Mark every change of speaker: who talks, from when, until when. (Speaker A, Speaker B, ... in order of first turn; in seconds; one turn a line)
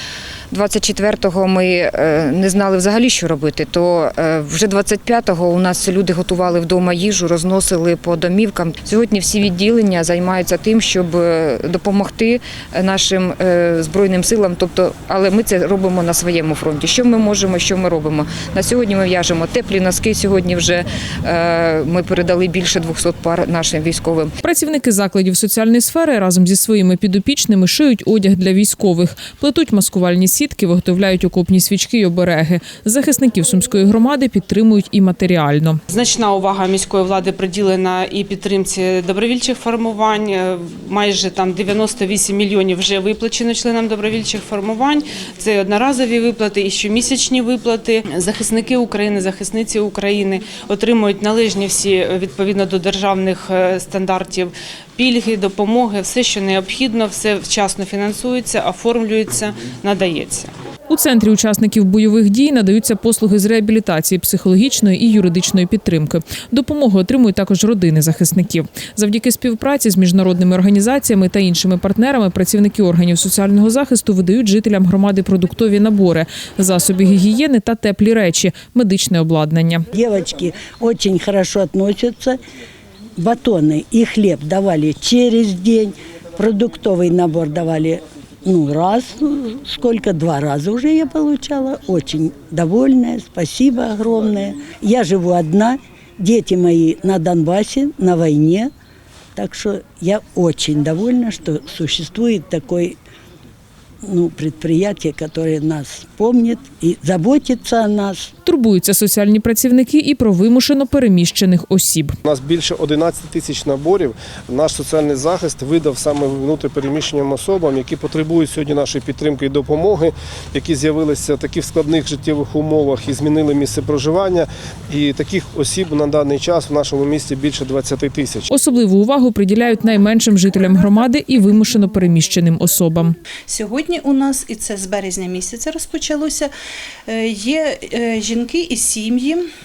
Speaker A: 0.5-24.3
Speaker B: 24.4-35.8
Speaker C: 35.9-60.5
Speaker B: 60.9-79.9
Speaker D: 79.9-82.4
Speaker D: 83.2-98.7
Speaker D: 99.3-103.0
Speaker D: 104.0-108.3
Speaker B: 108.4-112.2
Speaker E: 112.2-128.5
Speaker B: 128.5-133.1
Speaker F: 133.5-136.5
Speaker F: 137.1-139.5